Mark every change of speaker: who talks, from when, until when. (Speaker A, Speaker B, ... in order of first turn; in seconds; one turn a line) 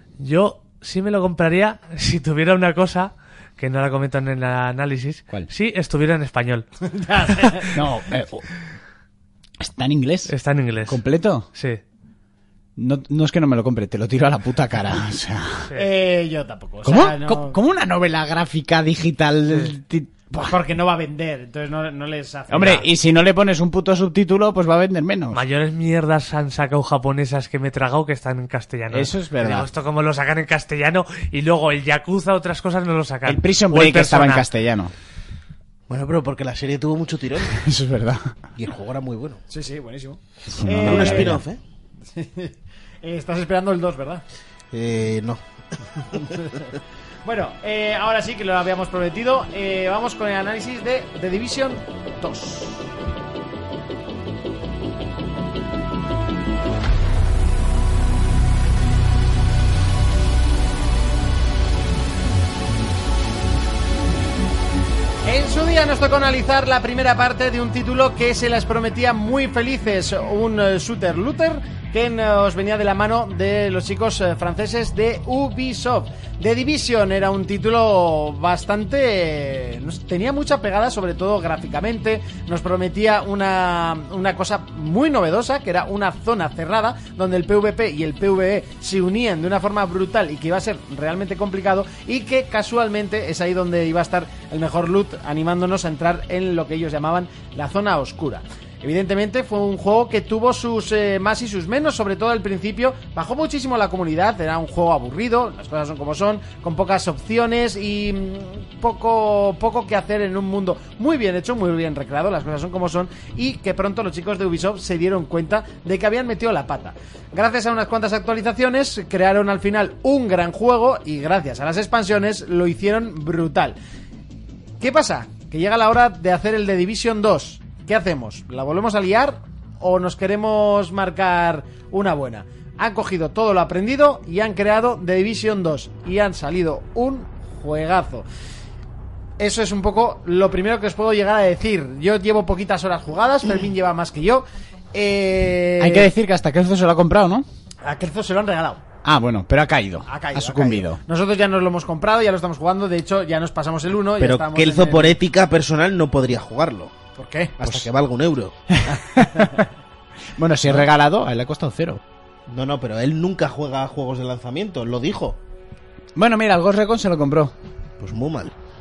Speaker A: 0.2-6.7
Speaker B: 6.8-7.7
Speaker A: 7.2-7.8
Speaker C: 7.7-8.5
Speaker C: 9.6-10.3
Speaker A: 10.3-11.0
Speaker C: 10.9-11.5
Speaker A: 11.5-11.8
Speaker C: 12.8-15.7
Speaker B: 15.8-17.6
Speaker C: 16.9-20.6
Speaker A: 19.5-19.7
Speaker B: 20.4-22.9
Speaker C: 22.5-25.4
Speaker A: 25.3-34.5
Speaker C: 28.9-29.7
Speaker C: 33.3-34.9
Speaker D: 35.9-37.6
Speaker C: 37.5-38.3
Speaker D: 38.5-39.4
Speaker B: 39.5-41.4
Speaker C: 40.5-41.4
Speaker D: 40.9-41.6
Speaker B: 42.1-44.2
Speaker D: 44.7-46.4
Speaker B: 46.3-46.6
Speaker B: 47.2-52.9
Speaker B: 65.2-123.8
Speaker B: 124.8-138.3
Speaker B: 139.4-146.1
Speaker C: 145.8-147.5
Speaker B: 147.8-148.8
Speaker C: 149.0-151.0
Speaker B: 150.1-155.2
Speaker D: 154.2-156.9
Speaker B: 157.2-157.6
Speaker D: 157.6-158.6
Speaker C: 158.7-159.6
Speaker B: 158.9-159.7
Speaker C: 160.4-162.0
Speaker D: 162.5-165.4
Speaker C: 166.2-167.6
Speaker D: 168.0-168.5